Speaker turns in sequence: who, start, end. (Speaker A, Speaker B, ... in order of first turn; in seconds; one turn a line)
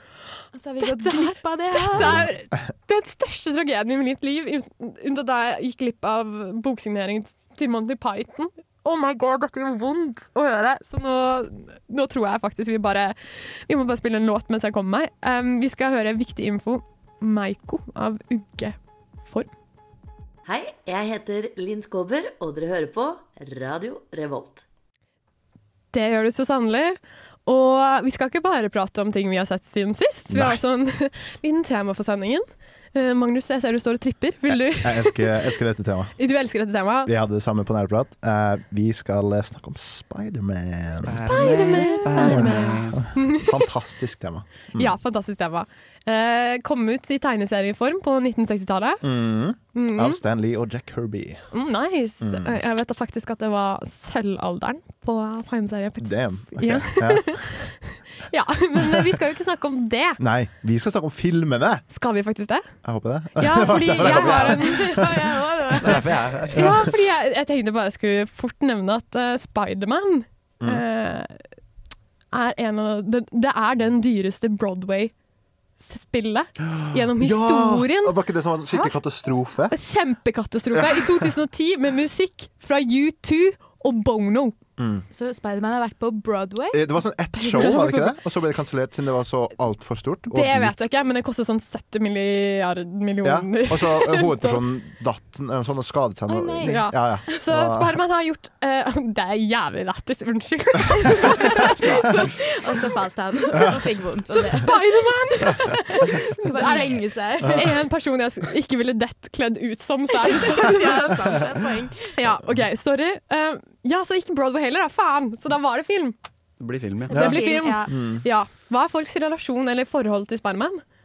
Speaker A: 0.5-2.3
Speaker B: 0.8-19.5
Speaker C: 20.4-24.6
Speaker B: 25.9-35.4
Speaker D: 30.3-30.6
Speaker D: 34.5-36.1
Speaker B: 36.2-37.1
Speaker D: 37.0-41.2
Speaker E: 41.0-43.0
Speaker B: 41.2-43.5
Speaker D: 42.0-45.0
Speaker B: 44.7-49.0
Speaker D: 49.0-51.5
Speaker B: 49.7-50.2
Speaker B: 51.5-60.2
Speaker D: 52.2-52.5
Speaker D: 56.0-57.7
Speaker D: 60.2-61.8
Speaker B: 61.9-62.7
Speaker D: 62.8-65.4
Speaker B: 63.4-65.0
Speaker A: 64.0-66.1
Speaker E: 65.8-66.8
Speaker B: 66.5-71.4
Speaker D: 66.5-66.8
Speaker B: 72.3-75.1
Speaker B: 75.8-78.2
Speaker D: 76.7-79.7
Speaker B: 79.7-84.5
Speaker D: 80.7-81.3
Speaker D: 84.8-85.0
Speaker A: 85.1-87.8
Speaker D: 86.7-90.7
Speaker B: 87.4-88.1
Speaker B: 90.3-94.6
Speaker D: 93.2-98.0
Speaker A: 96.3-96.9
Speaker B: 96.6-102.2
Speaker A: 101.4-104.8
Speaker B: 104.3-111.3
Speaker A: 105.5-107.7
Speaker A: 110.2-112.1
Speaker B: 112.1-116.2
Speaker E: 116.6-117.2
Speaker A: 117.1-118.0
Speaker B: 117.1-120.8
Speaker D: 117.1-118.2